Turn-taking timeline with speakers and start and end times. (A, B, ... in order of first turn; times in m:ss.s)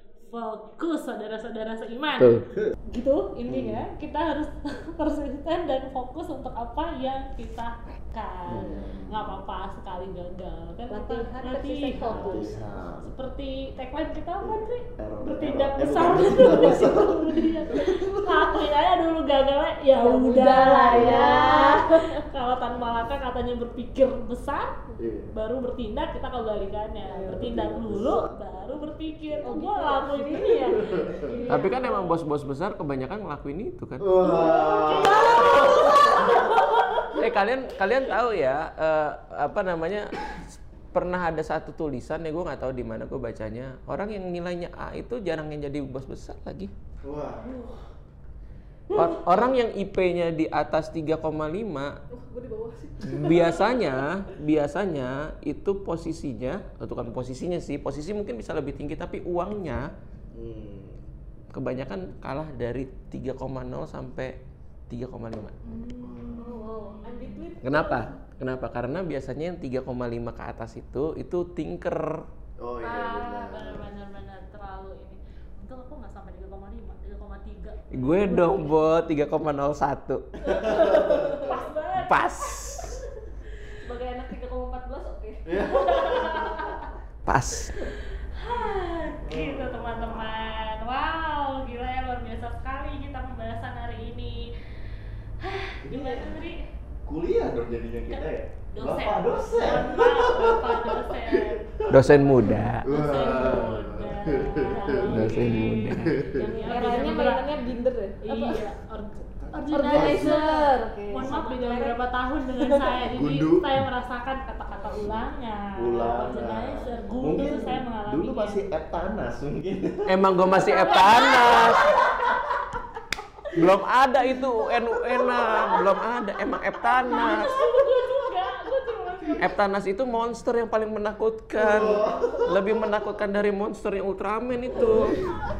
0:00.2-0:02.4 A
0:02.9-0:24.8 A
0:03.5-0:03.8 B
0:08.5-0:09.3 B
0:08.5-0:08.9 C
0:10.9-0:12.7 C
0:12.0-0:13.1 B
0:14.4-0:18.4 B
0:20.0-0:22.2 C
0:20.9-0:21.3 B
0:25.0-0:25.3 B
0:25.3-0:32.1 A
0:27.2-0:27.5 C
0:27.2-0:28.4 B
0:29.4-0:31.9 C
0:30.8-0:31.2 B
0:31.5-0:34.1 D
0:34.0-0:36.0 B
0:34.2-0:37.2 C
0:34.2-0:37.8 A
0:37.2-0:46.7 D
0:47.0-0:47.6 B
0:47.4-0:47.8 C
0:48.9-0:49.3 C
0:48.9-0:52.0 D
0:52.1-0:53.9 C
0:53.0-0:59.9 D
1:00.3-1:01.0 B
1:01.5-1:05.6 D
1:05.7-1:08.1 C
1:05.8-1:07.5 A
1:06.0-1:06.6 B
1:07.6-1:12.3 D
1:12.6-1:13.8 B
1:12.8-1:18.9 A
1:17.9-1:20.4 D
1:20.4-1:21.7 C
1:20.5-1:21.5 B
1:20.6-1:22.9 A
1:22.0-1:23.0 D
1:23.6-1:26.8 C
1:25.4-1:26.6 B
1:26.0-1:26.4 A
1:27.2-1:27.8 D
1:28.3-1:34.6 A
1:29.2-1:30.3 B
1:35.4-1:36.6 A
1:35.8-1:36.4 B
1:37.0-1:46.7 B
1:38.1-1:41.7 A
1:41.9-1:42.8 D
1:42.8-1:47.7 A
1:43.1-1:43.6 C
1:45.1-1:46.2 D
1:46.6-1:48.6 C
1:48.2-1:58.6 A
1:49.4-1:50.4 B
1:49.7-1:52.0 C
1:52.6-1:53.0 C
1:53.1-1:53.8 B
1:55.8-2:00.2 B
2:00.1-2:02.0 D
2:00.6-2:02.1 A
2:03.5-2:07.6 D
2:07.0-2:09.5 A
2:07.3-2:08.1 C
2:09.4-2:15.2 D
2:11.6-2:12.6 B
2:11.7-2:12.5 C
2:14.7-2:15.2 B